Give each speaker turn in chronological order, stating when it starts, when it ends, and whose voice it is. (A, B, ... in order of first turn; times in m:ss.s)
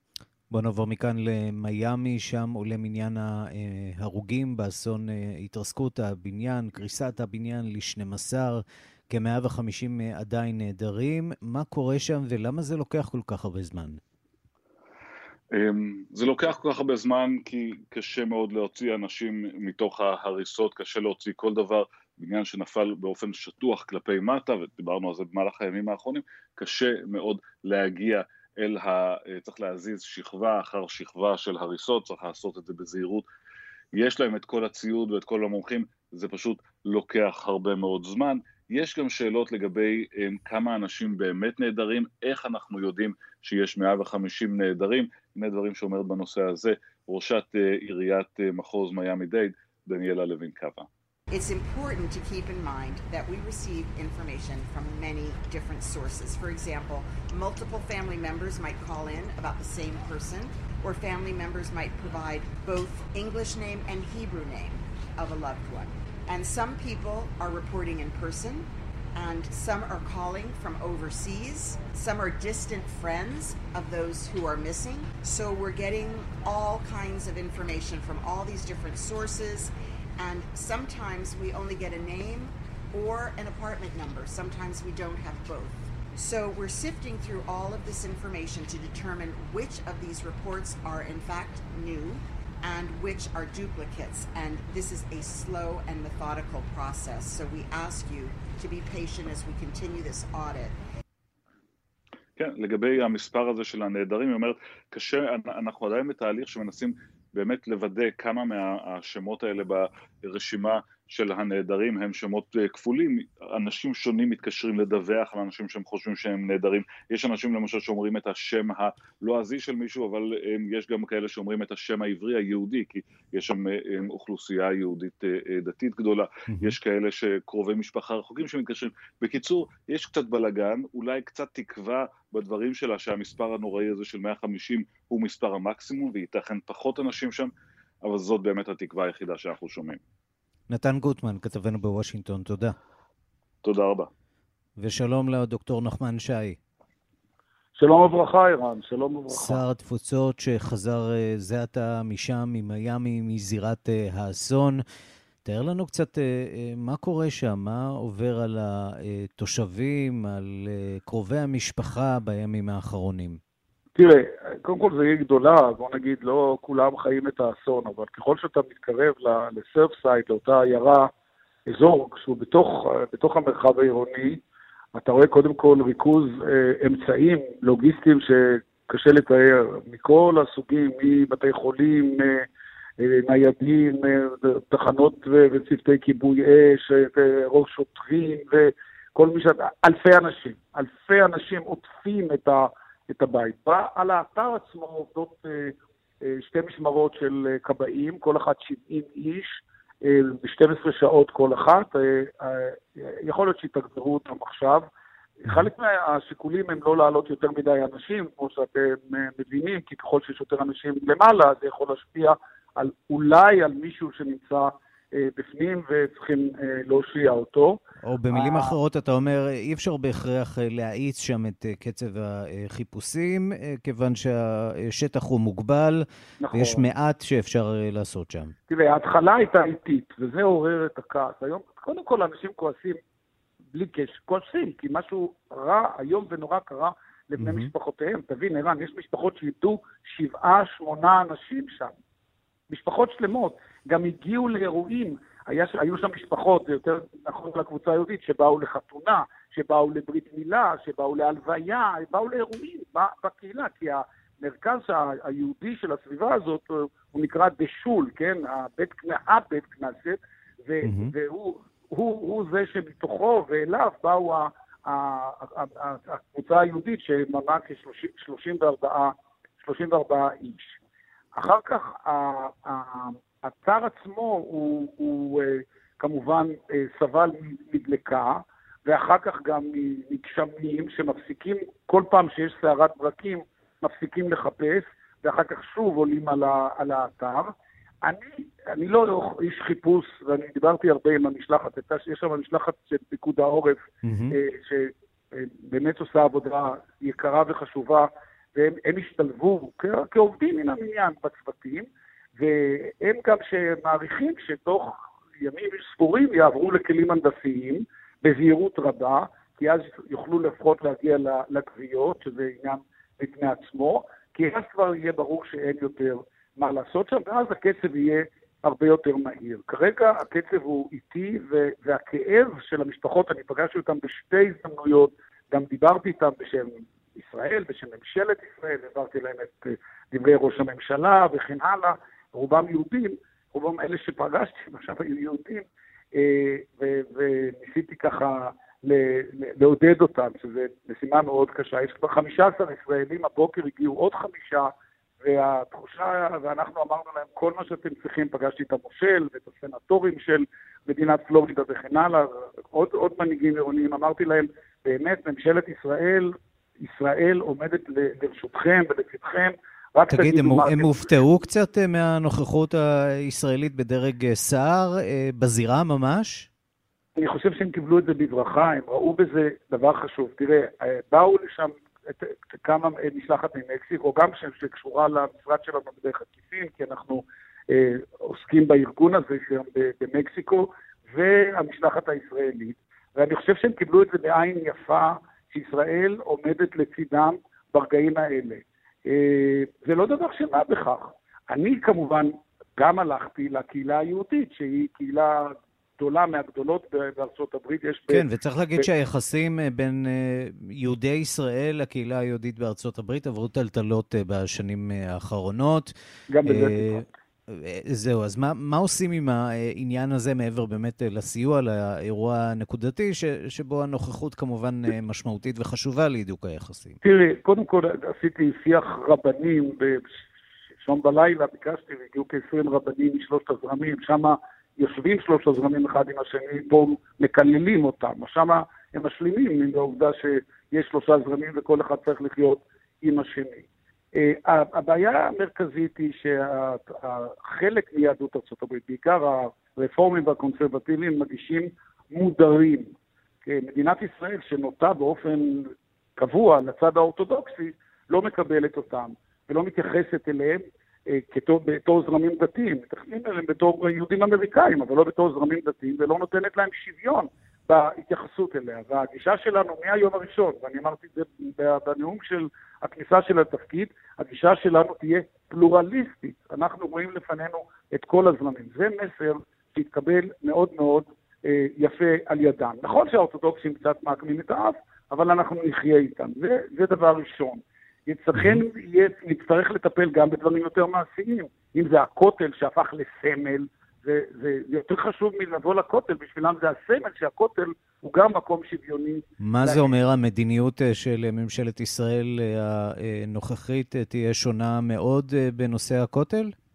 0:00.5-0:14.0 A
0:15.5-0:33.3 B
0:34.0-0:50.9 B
0:51.3-1:40.8 C
1:42.4-2:17.5 B
2:06.5-2:06.8 A
2:18.0-2:20.0 B
2:20.7-2:22.8 A
2:23.6-2:24.1 B
2:24.8-2:26.6 A
2:27.8-2:29.6 D
2:29.3-2:34.8 A
2:35.4-2:43.4 A
2:44.0-2:51.1 D
2:51.7-2:54.4 D
2:55.0-3:02.4 D
3:03.0-3:24.9 D
3:25.4-3:37.8 D
3:38.0-3:48.6 A
3:38.3-3:38.7 D
3:46.4-3:46.8 D
3:48.7-3:53.0 D
3:53.7-4:01.9 D
3:57.4-3:57.7 A
4:02.7-4:30.8 D
4:20.8-4:21.1 A
4:31.4-4:47.5 D
4:48.0-4:53.8 D
4:54.0-4:54.4 A
4:54.3-5:35.6 D
5:36.2-5:44.7 D
5:45.2-6:01.0 D
6:00.1-6:06.5 A
6:07.2-6:38.2 D
6:38.1-6:45.9 A
6:46.3-6:47.0 D
6:46.4-6:57.0 A
6:57.0-7:00.1 D
7:00.8-7:22.9 D
7:23.4-8:10.0 D
7:58.4-7:58.6 A
8:09.4-8:16.5 A